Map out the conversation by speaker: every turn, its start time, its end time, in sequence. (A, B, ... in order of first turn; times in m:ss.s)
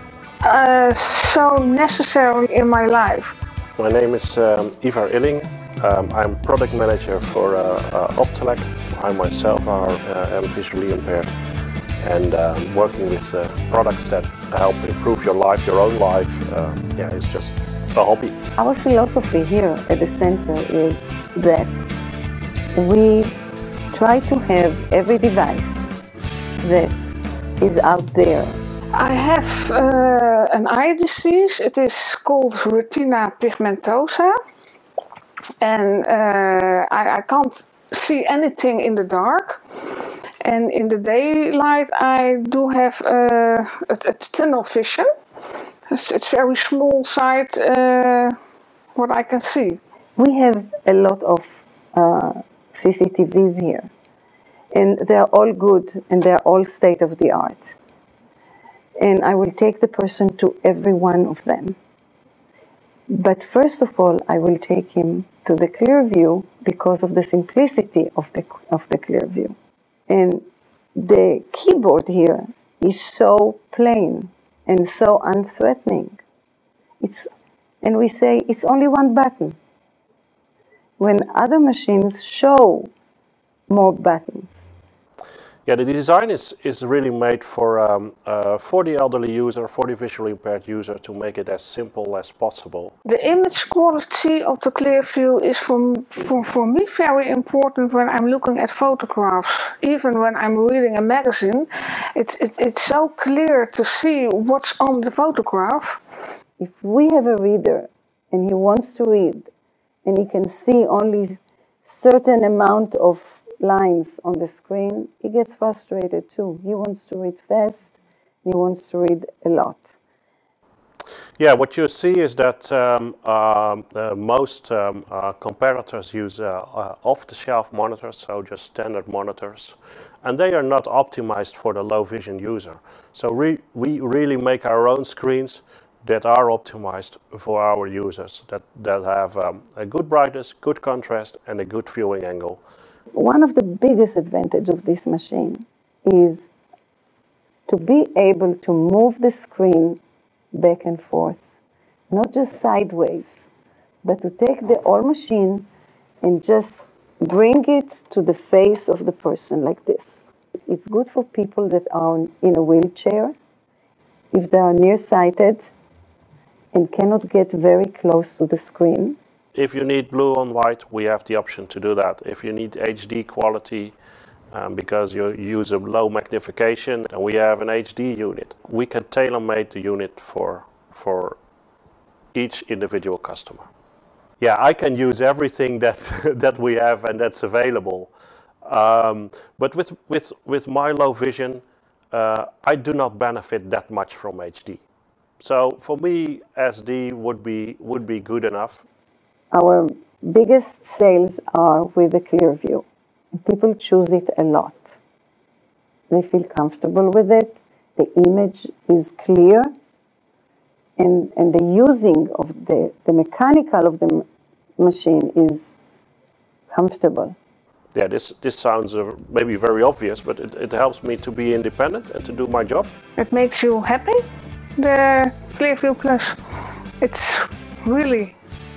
0:00.4-0:03.4 A
0:03.8-0:11.3 B
0:12.0-0:18.4 B
0:18.6-0:21.9 C
0:22.8-0:23.4 C
0:23.9-0:25.9 C
0:26.6-0:28.6 C
0:29.0-0:34.4 A
0:35.6-0:39.6 A
0:40.4-0:45.1 A
0:45.9-0:48.3 A
0:49.0-0:49.8 A
0:50.2-0:53.9 C
0:54.7-0:57.8 C
0:59.0-1:01.8 C
1:03.1-1:09.6 C
1:10.1-1:10.4 C
1:11.0-1:16.2 C
1:17.0-1:17.3 C
1:17.8-1:19.6 C
1:21.0-1:22.9 C
1:23.7-1:24.7 C
1:25.7-1:32.9 B
1:33.1-1:46.0 A
1:46.6-1:49.5 C
1:50.0-2:00.0 C
2:01.4-2:22.6 B
2:23.1-2:26.5 C
2:27.7-2:30.0 C
2:30.5-2:31.4 C
2:32.1-2:33.5 C
2:34.0-2:35.7 C
2:36.2-2:43.4 C
2:44.3-2:45.7 C
2:46.7-2:49.2 C
2:49.5-2:54.0 B
2:54.5-3:01.4 B
3:02.3-3:03.7 B
3:04.4-3:08.1 B
3:08.6-3:14.8 B
3:15.4-3:18.8 B
3:19.5-3:25.0 C
3:26.1-3:29.7 C
3:31.0-3:34.3 C
3:34.8-3:35.6 C
3:36.7-3:37.4 C
3:37.9-3:42.9 B
3:43.2-3:44.2 A
3:44.8-3:46.4 A
3:47.0-3:48.4 A